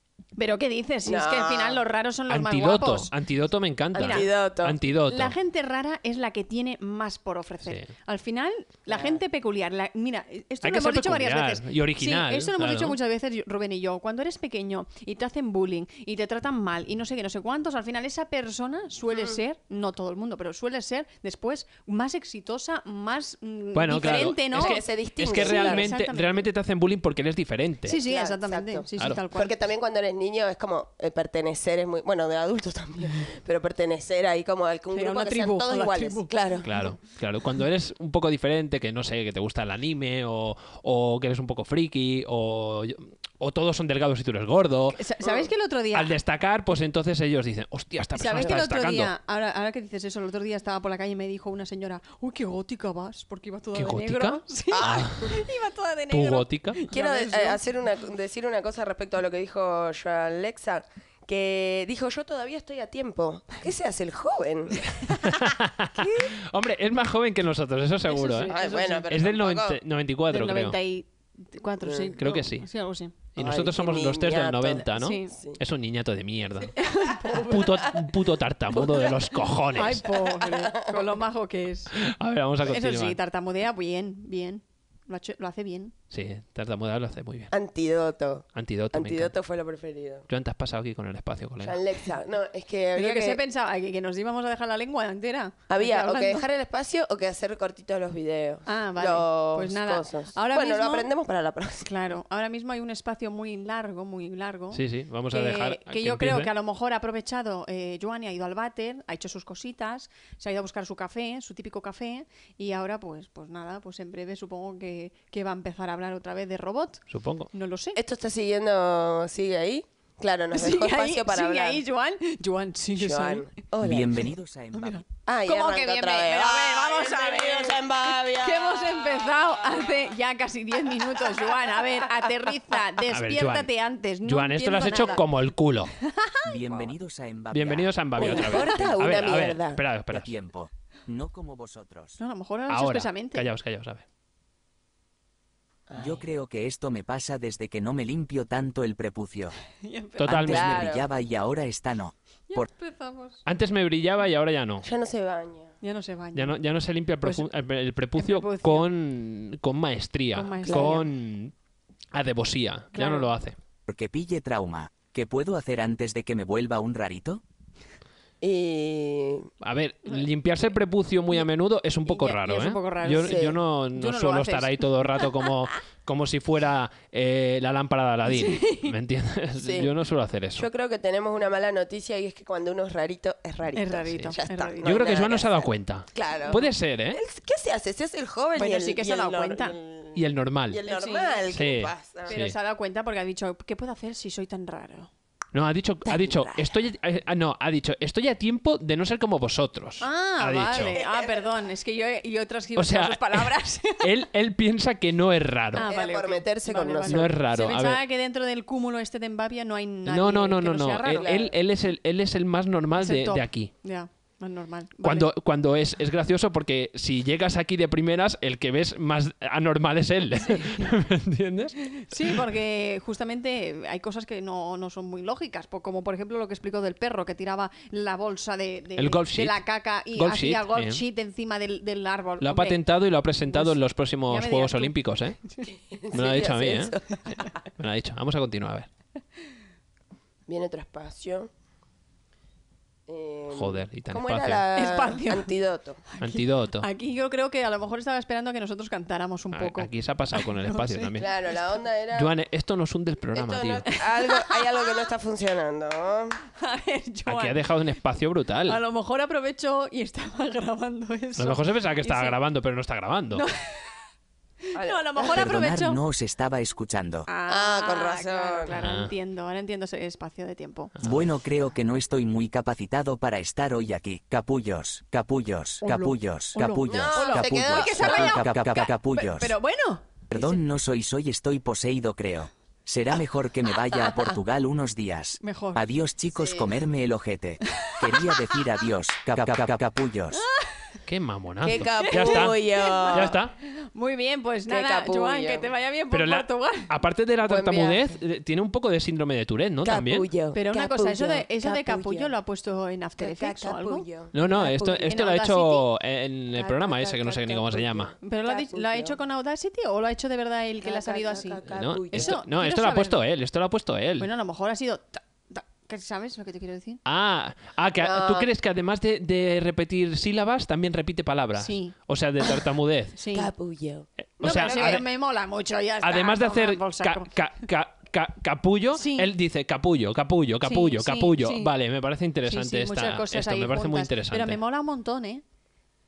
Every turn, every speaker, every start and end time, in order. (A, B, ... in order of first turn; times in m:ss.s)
0:00.4-0:03.1 A
0:01.0-0:01.8 B
0:02.3-0:05.4 C
0:03.9-0:04.3 A
0:03.9-0:04.8 B
0:05.1-0:24.8 A
0:08.9-0:09.2 B
0:10.6-0:13.0 C
0:23.7-0:28.0 C
0:24.6-0:25.9 B
0:25.4-0:26.5 A
0:27.9-0:29.6 A
0:27.9-0:36.7 B
0:34.9-0:36.3 A
0:36.6-0:45.0 C
0:44.9-0:46.1 A
0:45.9-0:49.1 C
0:48.1-0:57.6 A
0:53.8-0:55.4 C
0:54.7-0:55.2 B
0:56.1-0:56.8 C
0:56.9-1:05.1 B
1:05.1-1:08.6 C
1:06.0-1:06.3 A
1:08.1-1:09.1 A
1:08.4-1:09.8 B
1:09.1-1:10.8 C
1:10.3-1:13.1 A
1:11.8-1:12.2 B
1:12.2-1:12.7 C
1:13.4-1:20.0 C
1:13.4-1:15.6 B
1:14.9-1:15.3 A
1:16.8-1:17.9 A
1:19.7-1:22.0 A
1:20.4-1:21.0 B
1:21.9-1:23.2 C
1:22.6-1:25.9 A
1:26.1-1:27.5 C
1:27.5-1:30.2 B
1:28.5-1:29.3 C
1:30.3-1:31.8 C
1:31.6-1:33.4 B
1:33.0-1:36.4 A
1:35.7-1:41.9 B
1:38.6-1:41.1 A
1:41.9-1:58.0 A
1:44.7-1:46.5 C
1:57.1-1:57.5 C
1:58.0-2:01.8 B
2:00.5-2:03.5 A
2:03.0-2:04.3 B
2:03.8-2:05.0 D
2:04.7-2:15.2 A
2:05.3-2:09.3 B
2:11.2-2:11.8 B
2:13.1-2:13.7 C
2:14.2-2:15.9 C
2:16.0-2:16.6 A
2:16.5-2:17.9 D
2:17.5-2:20.3 C
2:18.2-2:19.8 B
2:20.1-2:22.2 D
2:22.2-2:23.5 A
2:22.7-2:24.0 C
2:25.9-2:26.2 B
2:26.0-2:29.6 D
2:29.8-2:30.5 A
2:30.2-2:30.9 C
2:30.2-2:32.7 D
2:30.5-2:31.1 B
2:32.5-2:33.4 A
2:33.5-2:34.9 C
2:34.8-2:35.7 B
2:35.8-2:36.5 A
2:36.4-2:41.5 C
2:38.2-2:38.9 A
2:40.3-2:41.1 A
2:40.6-2:41.0 B
2:42.1-2:43.6 C
2:42.9-2:43.3 A
2:43.9-2:47.4 D
2:48.4-2:49.5 B
2:49.6-3:00.7 C
2:52.1-2:55.2 A
2:53.2-2:53.6 B
2:58.3-2:58.9 A
2:59.6-2:59.9 B
3:00.6-3:12.4 B
3:03.8-3:05.1 A
3:04.1-3:07.2 C
3:08.6-3:09.8 A
3:10.1-3:10.8 C
3:10.9-3:11.4 A
3:11.5-3:12.5 C
3:12.2-3:15.1 A
3:15.5-3:21.0 C
3:16.1-3:16.7 B
3:20.0-3:24.1 A
3:20.8-3:21.3 B
3:22.8-3:25.9 C
3:25.7-3:31.4 A
3:25.8-3:27.3 B
3:27.1-3:28.0 C
3:30.1-3:33.7 C
3:31.2-3:31.5 B
3:33.0-3:35.3 A
3:35.0-3:42.3 C
3:42.0-3:52.8 A
3:49.0-3:49.6 C
3:50.1-3:51.0 C
3:52.4-3:55.4 C
3:53.5-3:55.7 A
3:55.9-3:57.6 B
3:56.1-3:58.9 C
4:00.5-4:01.5 B
4:03.1-4:06.0 B
4:03.5-4:04.6 C
4:04.8-4:05.5 A
4:06.1-4:11.1 A
4:06.2-4:06.9 C
4:09.5-4:11.3 C
4:11.2-4:12.3 B
4:12.1-4:13.9 C
4:13.4-4:16.4 B
4:14.0-4:14.6 A
4:16.6-4:17.6 A
4:17.3-4:18.8 C
4:18.7-4:22.4 A
4:21.4-4:23.4 C
4:23.3-4:24.0 A
4:24.7-4:26.0 A
4:24.8-4:25.5 B
4:25.3-4:27.3 D
4:27.3-4:30.9 A
4:27.5-4:28.8 B
4:28.7-4:29.1 C
4:31.0-4:31.2 C
4:31.0-4:39.5 D
4:35.8-4:40.0 A
4:36.9-4:38.4 B
4:40.3-4:50.4 D
4:45.4-4:45.8 A
4:46.3-4:46.7 B
4:47.8-4:48.5 A
4:50.4-4:50.8 A
4:51.1-4:53.5 C
4:51.6-4:53.4 B
4:52.0-4:56.9 A
4:54.7-4:55.7 B
4:56.1-5:00.2 C
4:57.4-4:58.1 B
4:59.8-5:02.3 B
5:00.5-5:05.9 A
5:03.2-5:05.1 B
5:04.3-5:08.1 C
5:06.6-5:09.2 B
5:08.2-5:13.2 A
5:10.8-5:12.4 B
5:11.7-5:14.3 C
5:14.2-5:17.0 A
5:17.0-5:23.2 C
5:18.0-5:18.5 B
5:21.6-5:21.9 A
5:23.2-5:23.5 A
5:23.3-5:25.0 B
5:24.2-5:25.0 C
5:24.4-5:27.3 A
5:26.0-5:34.6 C
5:28.9-5:29.3 A
5:30.6-5:31.7 A
5:32.5-5:35.4 A